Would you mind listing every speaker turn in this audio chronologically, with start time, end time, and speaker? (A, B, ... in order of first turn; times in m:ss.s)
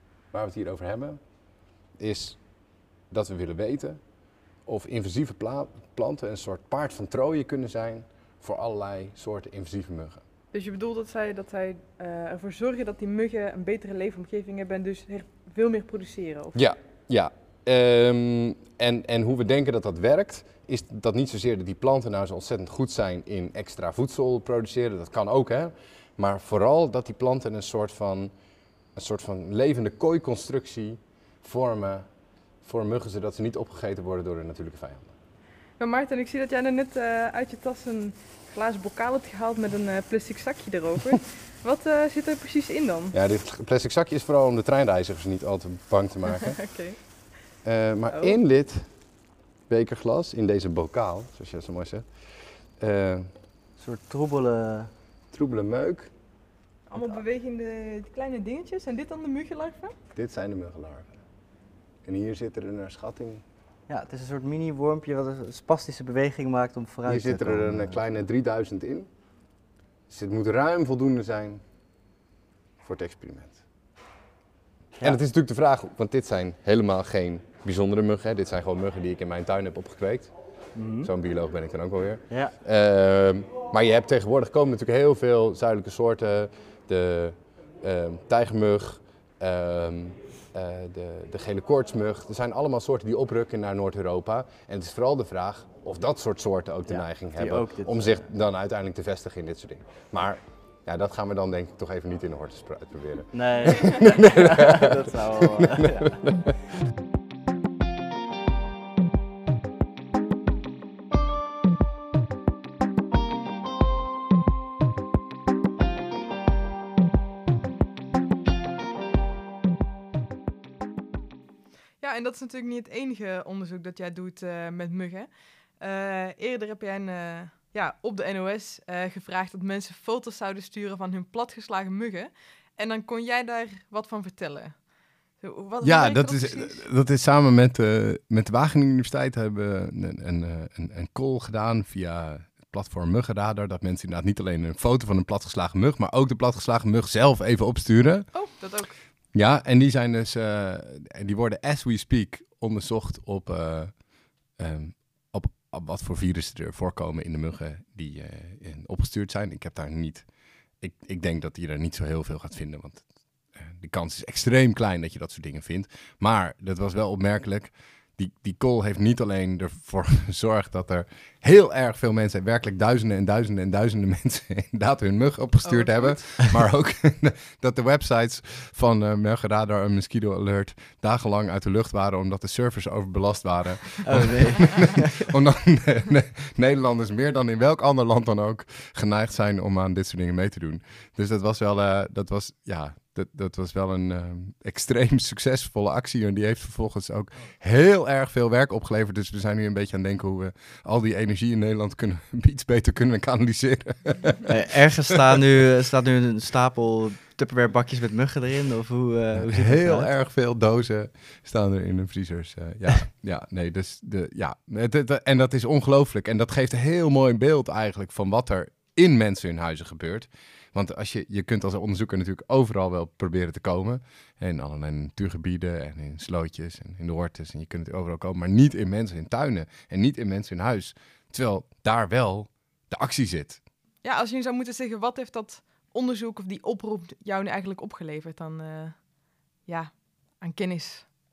0:00.3-0:10.2 A
0:10.5-0:16.6 B
0:16.5-0:28.3 A
0:29.0-0:32.1 A
0:32.6-0:35.1 A
0:35.8-0:43.2 B
0:43.1-0:46.6 A
0:46.3-0:47.2 B
0:47.6-0:49.0 A
0:49.7-0:53.3 A
0:53.8-0:54.9 C
0:55.3-0:56.1 A
0:56.9-1:00.0 B
1:00.2-1:01.2 A
1:02.0-1:03.4 A
1:03.9-1:08.0 C
1:07.1-1:09.1 A
1:10.1-1:11.6 A
1:12.8-1:13.6 A
1:15.0-1:20.3 A
1:20.7-1:21.1 C
1:21.0-1:46.5 A
1:22.3-1:22.6 C
1:36.9-1:38.3 C
1:43.3-1:46.2 C
2:02.0-2:16.8 B
2:15.8-2:28.4 A
2:28.3-2:29.0 B
2:29.3-3:24.5 A
2:55.6-2:56.4 B
3:04.0-3:05.3 C
3:24.5-3:30.1 C
3:29.4-3:53.6 A
3:54.0-4:01.1 B